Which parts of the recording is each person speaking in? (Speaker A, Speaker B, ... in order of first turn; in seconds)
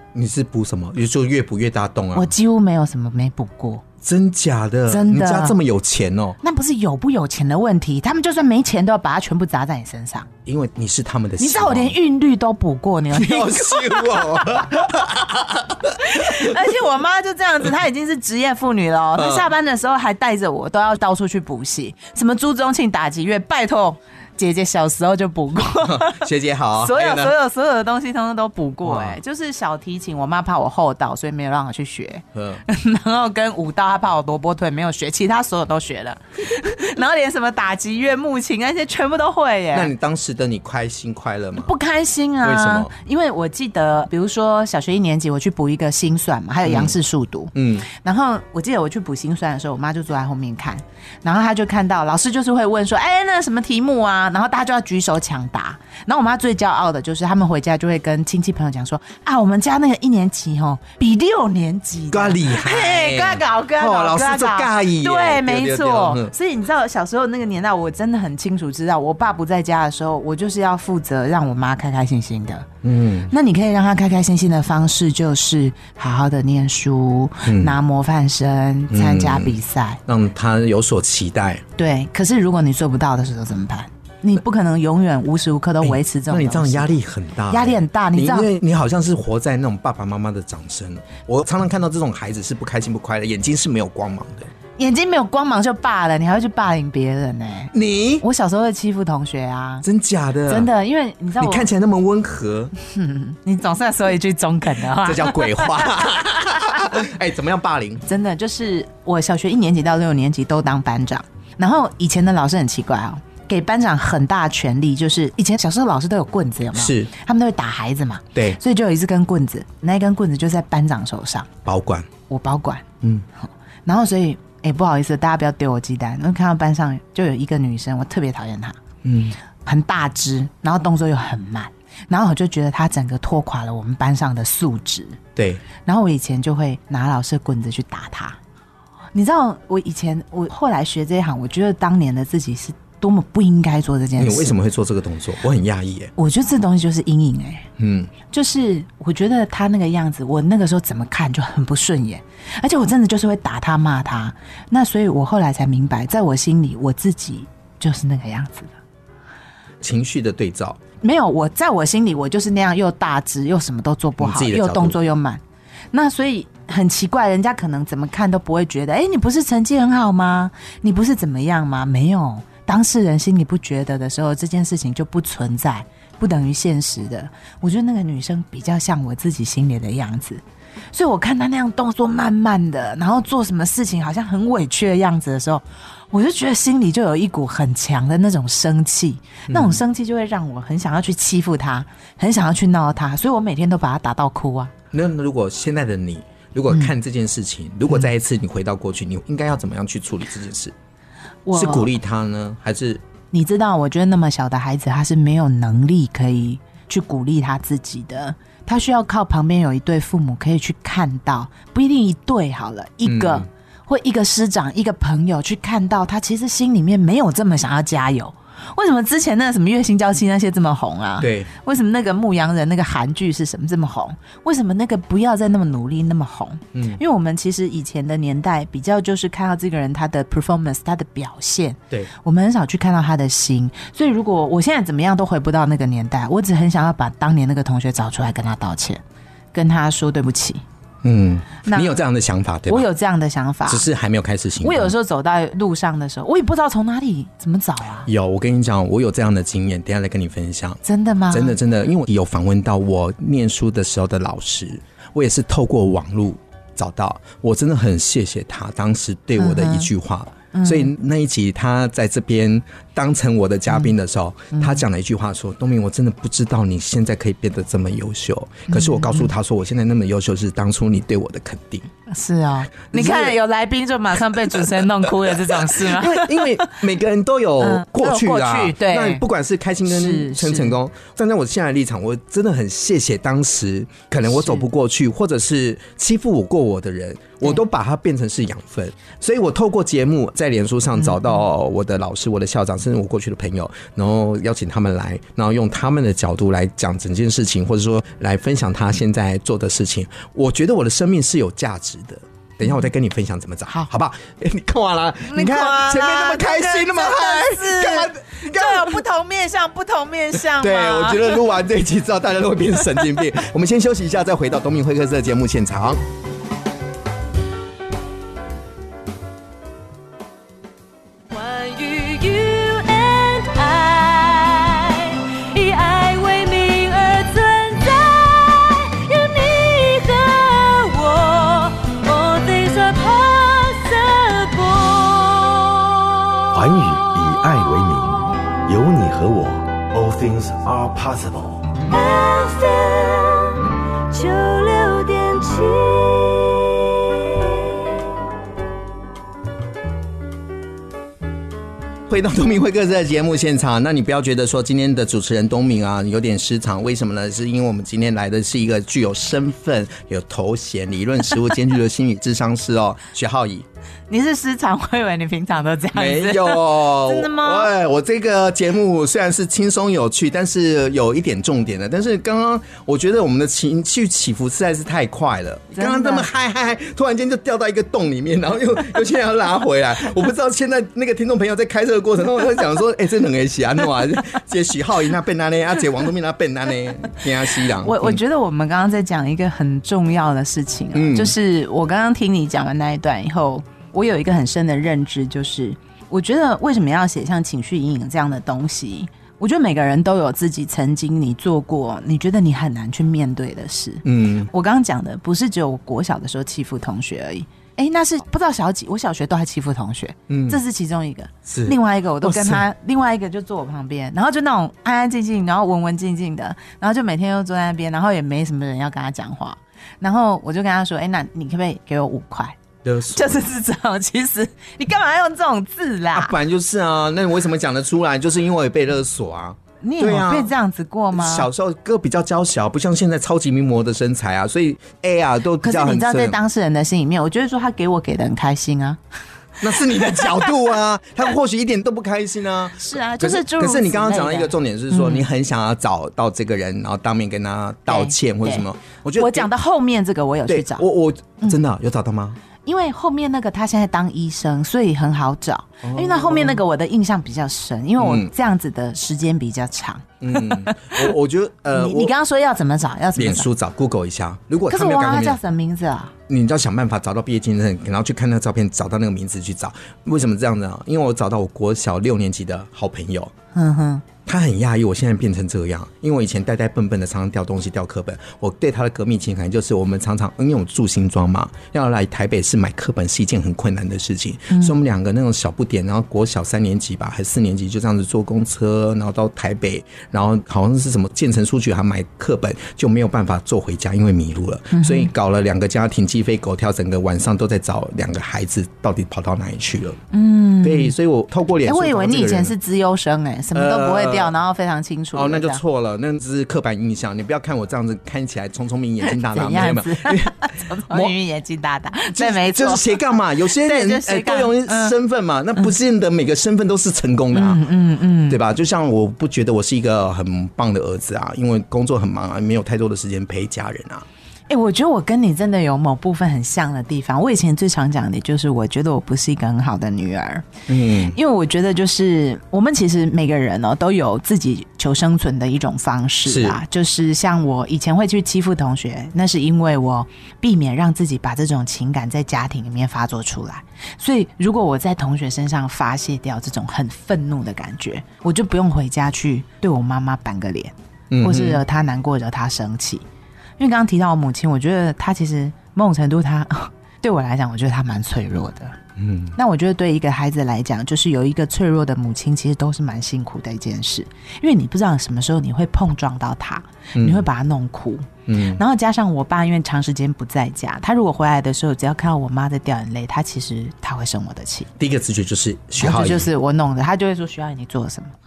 Speaker A: 0.1-2.3, 4.0-6.4, 10.4-12.0, 13.1-16.5, 19.1-19.5, 25.8-27.3, 28.8-29.2, 32.3-32.6, 39.7-41.7, 42.4-42.9, 46.6-46.9, 47.5-47.9, 62.1-66.3, 72.8-73.3, 77.4-77.8, 78.9-81.6, 85.8-94.5, 97.7-98.2, 99.8-100.7, 101.4-102.7, 105.0-108.0, 116.7-117.1, 121.6-122.1, 129.0-129.3, 135.3-135.6, 144.2-146.1, 147.8-148.1, 159.8-160.8, 164.2-165.0, 189.5-189.8, 194.9-200.7, 201.5-203.0, 213.0-213.5, 221.2-221.5, 226.7-227.0, 241.0-242.9, 243.7-244.9, 248.1-271.9, 272.9-273.4, 274.5-309.0, 310.4-316.0, 352.1-363.6, 365.9-388.2, 390.9-391.3, 404.0-404.5, 410.3-410.6, 411.5-412.6, 422.8-423.4, 426.1-430.5, 431.1-436.4, 439.6-449.5, 450.5-452.4, 455.8-456.6, 458.0-458.3, 460.2-462.1, 463.1-465.4, 466.3-473.3, 474.2-500.0, 500.6-502.5, 503.5-504.3, 505.1-511.1, 512.1-517.6, 518.3-524.0, 530.7-531.1, 536.2-536.6, 551.1-551.6, 559.0-559.4, 566.9-567.2, 568.3-568.6, 574.8-576.3
Speaker B: 2.1-3.8, 4.9-5.6, 6.4-10.3, 11.4-14.8, 15.9-39.9, 41.6-72.7, 73.3-80.0, 81.8-86.9, 87.5-88.5, 94.8-99.8, 100.5-101.7, 102.8-106.9, 108.1-121.5, 122.3-122.8, 123.8-128.8, 129.6-135.2, 135.8-138.4, 139.1-144.6, 146.2-147.7, 148.3-158.7, 161.0-165.4, 165.9-180.4, 180.9-194.7, 201.4-201.9, 203.3-239.0, 239.5-240.6, 241.6-242.0, 242.7-243.9, 244.6-248.1, 250.8-251.6, 259.4-259.9, 260.5-260.9, 264.5-264.8, 268.7-269.3, 272.1-276.8, 277.6-279.2, 279.9-280.8, 284.3-284.6, 305.2-311.4, 364.1-367.7, 375.7-376.3, 387.8-422.6, 423.1-426.3, 429.8-431.5, 435.6-439.0, 439.9-440.3, 442.8-445.2, 447.9-450.9, 452.6-461.1, 461.7-463.5, 464.7-466.1, 473.5-474.0, 484.5-484.8, 494.7-495.1, 500.1-500.9, 501.6-505.6, 509.0-514.9, 517.3-518.4, 524.5-530.5, 531.1-553.0, 553.6-558.8, 559.4-574.7, 575.8-578.1
Speaker C: 321.3-335.7, 341.9-347.6
Speaker D: 336.5-341.7